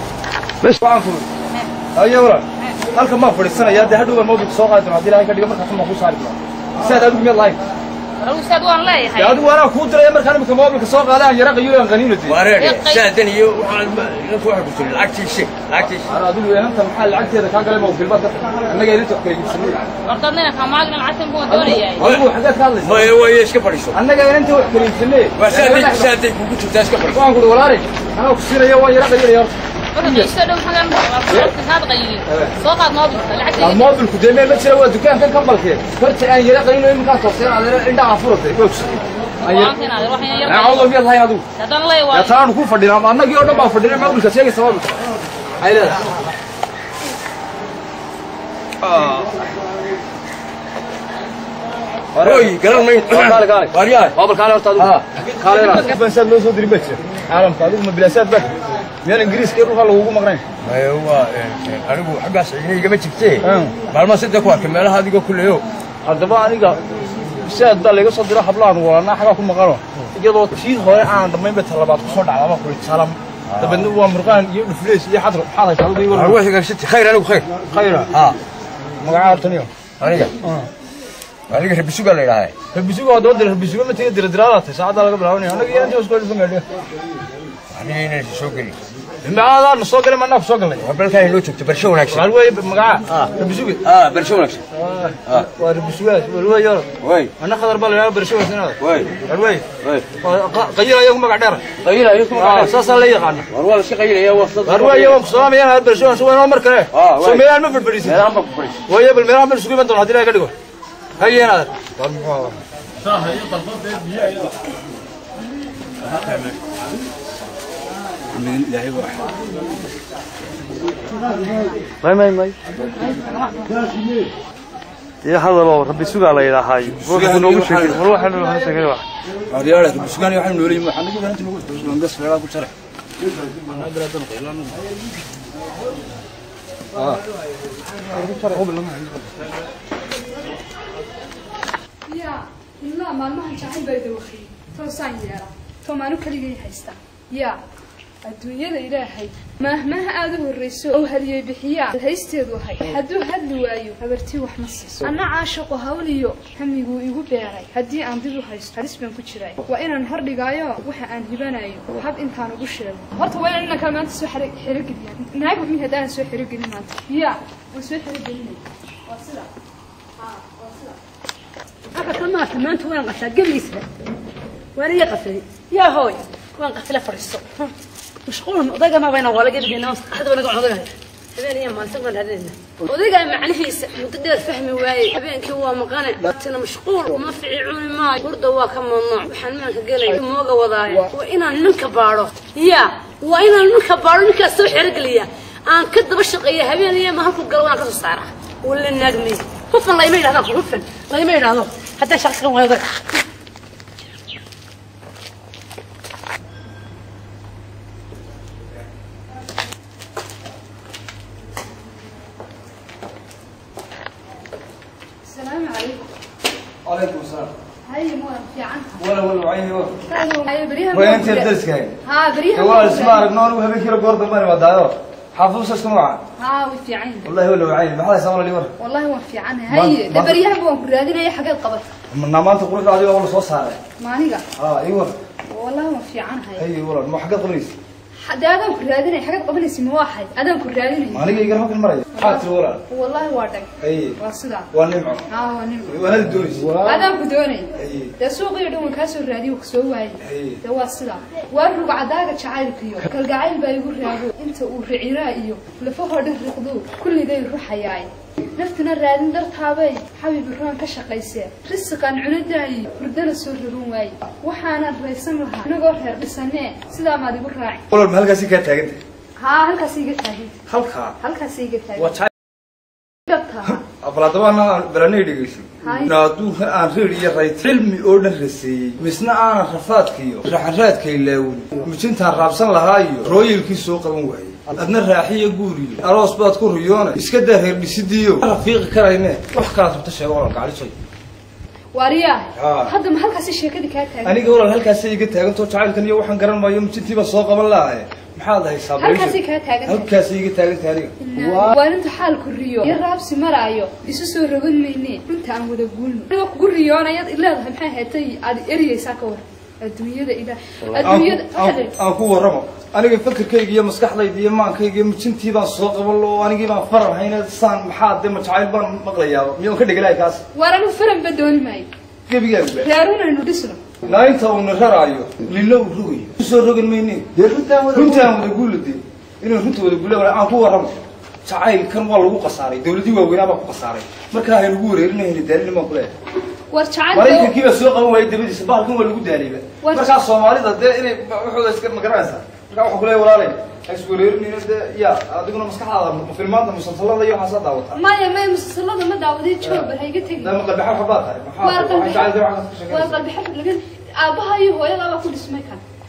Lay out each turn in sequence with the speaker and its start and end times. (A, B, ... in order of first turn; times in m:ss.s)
0:00.6-0:01.3 A
0:01.9-0:07.6 A
0:08.2-0:09.4 B
0:09.2-0:12.4 A
0:12.2-0:16.1 C
0:12.5-0:13.1 B
0:16.0-0:19.9 A
0:20.0-0:22.1 B
0:21.5-0:23.1 A
0:22.0-0:22.3 C
0:22.8-0:24.0 C
0:23.9-0:26.1 A
0:25.4-0:27.2 C
0:27.1-0:30.3 A
0:30.0-0:33.9 B
0:32.3-0:32.5 A
0:33.6-0:39.7 A
0:39.4-0:40.9 B
0:40.4-0:41.4 A
0:41.6-0:42.3 B
0:42.1-0:45.0 A
0:45.6-0:46.0 A
0:48.8-0:49.3 A
0:52.1-1:00.4 A
0:52.2-0:54.2 C
0:54.8-0:55.0 C
1:00.6-1:05.6 C
1:03.4-1:03.8 A
1:06.0-1:06.8 A
1:07.4-1:16.4 A
1:13.5-1:13.9 C
1:16.1-1:17.5 C
1:17.6-1:18.1 A
1:19.0-1:19.7 A
1:20.0-1:20.3 C
1:20.4-1:20.7 A
1:21.5-1:22.5 C
1:22.7-1:26.6 A
1:27.7-1:28.8 C
1:29.2-1:30.8 A
1:30.8-1:32.3 C
1:32.1-1:33.8 A
1:33.8-1:34.6 C
1:34.8-1:39.6 A
1:37.0-1:37.3 C
1:38.8-1:39.1 C
1:39.8-1:40.1 C
1:40.2-1:41.6 A
1:41.8-1:42.7 C
1:42.3-1:43.5 A
1:43.5-1:45.2 C
1:44.6-1:48.2 A
1:46.9-1:47.4 C
1:48.0-1:48.8 C
1:48.9-1:50.5 A
1:51.2-1:52.6 A
1:58.3-1:59.2 A
2:02.0-2:02.5 D
2:05.2-2:09.0 D
2:06.8-2:08.1 A
2:09.5-2:12.7 A
2:13.6-2:14.8 A
2:16.9-2:17.2 A
2:18.0-2:19.3 A
2:22.0-2:27.6 E
2:28.2-2:49.5 E
2:50.2-2:51.0 E
2:51.9-2:53.8 F
2:54.7-2:57.7 F
2:58.2-3:23.0 F
3:35.2-3:36.0 E
3:36.8-3:37.5 A
3:37.8-3:39.0 E
3:39.0-3:40.0 A
3:40.0-3:41.5 E
3:40.9-3:42.0 A
3:42.0-3:43.3 E
3:42.5-3:46.2 A
3:46.4-3:47.3 E
3:47.2-3:48.7 A
3:48.8-3:51.9 E
3:49.7-3:50.4 A
3:52.1-3:53.8 A
3:54.0-3:54.4 E
3:54.6-3:55.1 A
3:55.4-3:56.6 E
3:56.6-3:57.7 A
3:58.2-4:01.3 E
4:01.1-4:02.8 A
4:02.2-4:04.7 E
4:03.8-4:04.2 A
4:04.7-4:05.3 A
4:05.3-4:06.1 E
4:05.9-4:07.0 A
4:06.7-4:27.8 E
4:07.8-4:08.1 A
4:10.2-4:10.6 A
4:27.9-4:29.0 A
4:29.4-4:30.6 E
4:30.7-4:31.2 A
4:31.2-4:32.2 E
4:32.0-4:32.3 A
4:33.3-4:33.8 E
4:33.7-4:50.9 A
4:35.8-4:36.1 E
4:51.9-4:54.4 E
4:52.6-4:52.9 A
4:54.2-5:01.7 A
4:59.0-5:00.1 E
5:01.2-5:11.9 E
5:11.0-5:20.4 A
5:20.5-5:21.9 E
5:22.3-5:22.9 A
5:22.8-5:23.8 E
5:24.0-5:30.9 A
5:31.4-5:36.1 A
5:36.7-5:37.5 E
5:37.1-5:48.0 A
5:39.8-5:40.1 E
5:47.9-5:50.5 E
5:49.6-5:53.2 A
5:51.6-5:52.3 E
5:52.9-5:55.8 E